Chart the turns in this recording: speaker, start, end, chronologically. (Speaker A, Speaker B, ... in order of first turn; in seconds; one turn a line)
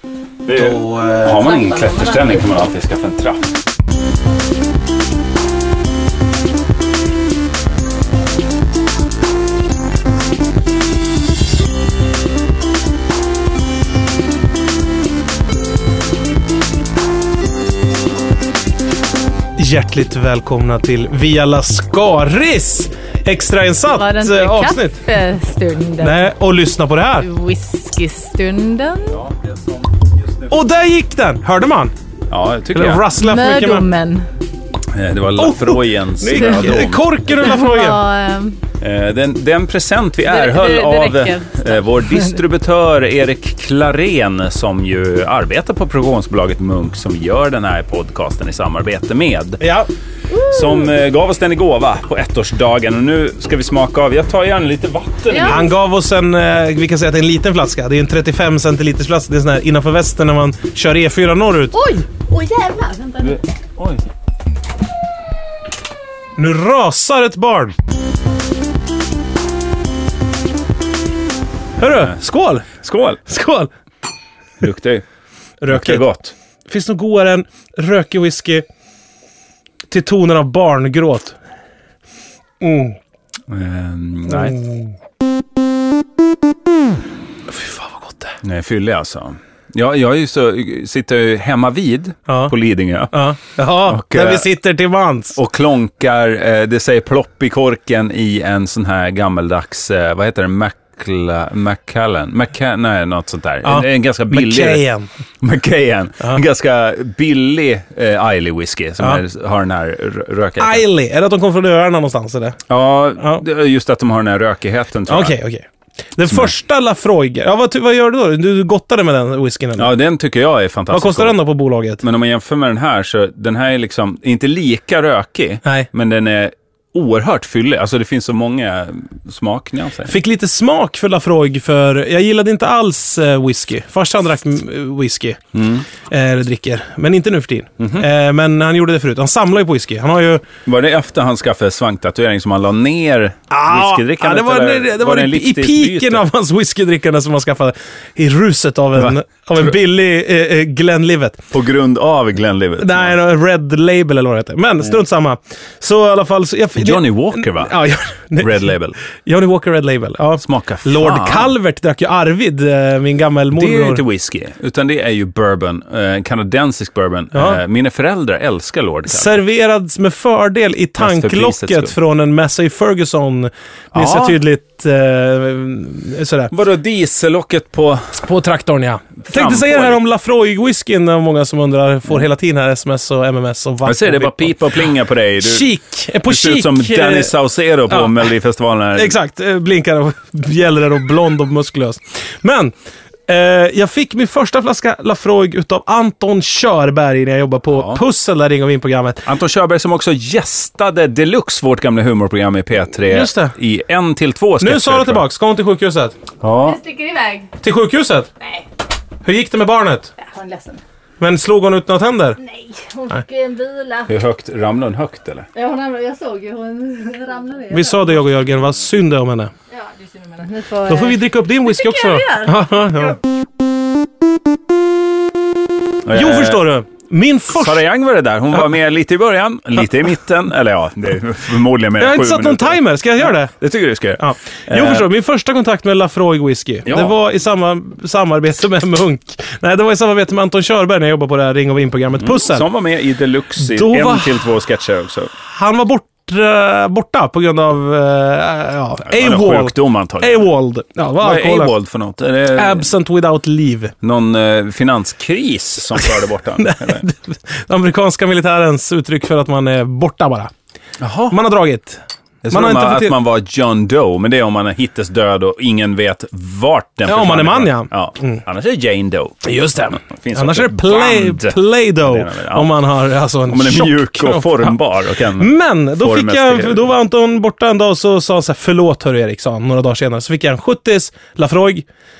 Speaker A: 0.5-3.5
Speaker B: 0.5-1.5
Speaker C: 1.3-2.6
Speaker B: 19.6-25.0
Speaker C: 23.9-26.3
Speaker B: 26.0-27.3
Speaker C: 27.2-29.2
Speaker A: 29.2-29.5
Speaker B: 30.5-31.9
Speaker A: 32.3-33.1
Speaker B: 32.7-33.9
Speaker C: 33.2-34.3
Speaker A: 34.9-37.1
Speaker B: 35.4-38.0
Speaker C: 36.4-36.8
Speaker C: 37.3-38.6
Speaker A: 38.8-49.6
Speaker C: 40.2-42.4
Speaker B: 49.6-49.9
Speaker C: 50.3-50.9
Speaker A: 50.5-55.7
Speaker C: 55.3-55.7
Speaker B: 55.4-61.8
Speaker C: 61.7-63.4
Speaker A: 63.2-64.1
Speaker B: 66.4-67.8
Speaker B: 71.8-72.7
Speaker A: 72.7-73.2
Speaker B: 73.2-73.7
Speaker A: 74.6-75.0
Speaker B: 75.6-76.0
Speaker A: 75.7-76.3
Speaker B: 76.7-78.7
Speaker B: 79.9-81.4
Speaker B: 82.6-83.0
Speaker A: 83.5-84.6
Speaker B: 84.3-84.9
Speaker B: 87.5-88.4
Speaker A: 88.4-93.1
Speaker B: 92.3-92.5
Speaker B: 93.1-95.4
Speaker A: 93.9-94.5
Speaker A: 95.3-104.8
Speaker B: 103.6-105.1
Speaker A: 105.4-110.8
Speaker B: 110.6-112.6
Speaker A: 112.7-115.3
Speaker B: 113.2-113.4
Speaker B: 115.1-119.9
Speaker A: 119.8-121.4
Speaker B: 120.9-122.0
Speaker A: 122.0-130.1
Speaker B: 130.1-135.4
Speaker A: 135.5-135.8
Speaker B: 136.1-140.5
Speaker A: 137.8-138.0
Speaker A: 140.7-146.2
Speaker B: 143.5-151.5
Speaker A: 149.0-149.7
Speaker A: 151.5-153.2
Speaker B: 152.8-164.0
Speaker A: 156.8-157.8
Speaker A: 158.4-159.0
Speaker A: 160.4-161.5
Speaker A: 163.5-169.4
Speaker B: 167.3-167.6
Speaker B: 169.1-176.5
Speaker A: 171.0-171.9
Speaker A: 173.9-174.4
Speaker A: 176.5-178.2
Speaker B: 178.2-184.6
Speaker A: 179.3-180.0
Speaker A: 183.8-185.7
Speaker B: 185.4-187.3
Speaker A: 186.3-189.2
Speaker B: 187.9-188.2
Speaker B: 188.9-192.7
Speaker B: 193.3-199.3
Speaker A: 197.7-198.0
Speaker A: 199.3-205.2
Speaker B: 203.1-203.6
Speaker B: 204.6-206.1
Speaker A: 206.4-206.8
Speaker C: 206.6-207.5
Speaker B: 207.6-208.3
Speaker B: 209.2-210.1
Speaker C: 210.2-210.8
Speaker B: 211.2-212.4
Speaker C: 212.4-214.2
Speaker A: 214.1-215.5
Speaker C: 215.6-218.3
Speaker B: 217.7-219.5
Speaker C: 219.7-222.6
Speaker B: 220.9-223.2
Speaker A: 226.1-226.7
Speaker B: 226.1-227.8
Speaker A: 227.5-235.1
Speaker B: 232.0-233.6
Speaker B: 234.2-242.7
Speaker A: 236.9-237.1
Speaker A: 242.2-245.3
Speaker B: 243.6-244.4
Speaker B: 245.4-251.7
Speaker A: 249.1-250.5
Speaker A: 251.2-252.9
Speaker B: 252.5-253.9
Speaker A: 254.0-257.0
Speaker B: 256.0-260.5
Speaker A: 261.0-261.4
Speaker B: 261.3-263.2
Speaker A: 262.4-272.7
Speaker B: 267.1-268.4
Speaker B: 269.4-281.9
Speaker A: 273.5-276.9